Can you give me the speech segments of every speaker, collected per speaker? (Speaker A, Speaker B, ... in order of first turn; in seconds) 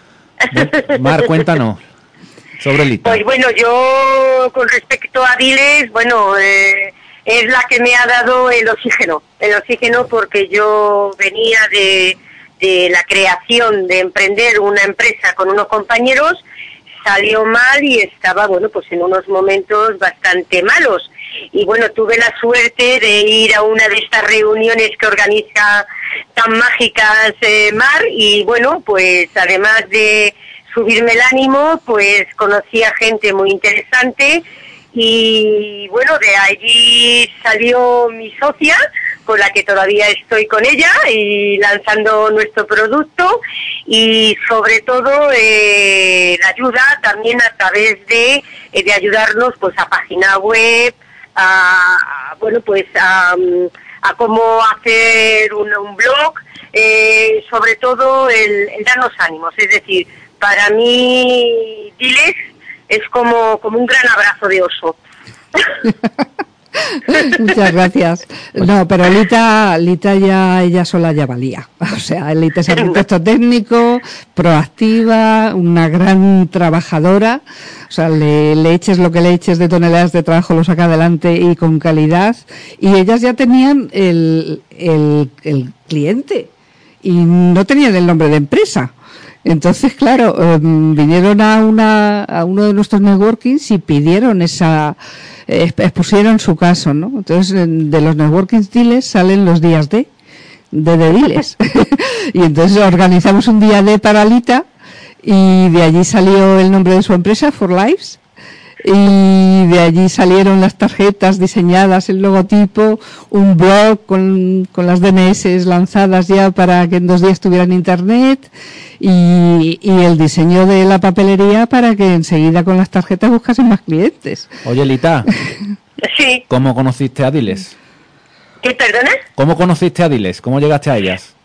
Speaker A: 0.5-1.8, 2.6-3.2, 124.6-125.3, 126.5-127.7, 129.4-131.3
Speaker B: 0.5-1.3, 3.0-16.4, 17.0-62.4, 62.9-65.0, 126.0-126.4, 128.6-129.2
Speaker C: 66.8-86.5, 87.0-88.9, 89.4-95.0, 95.5-100.1, 100.7-104.7, 105.2-108.2, 108.8-124.5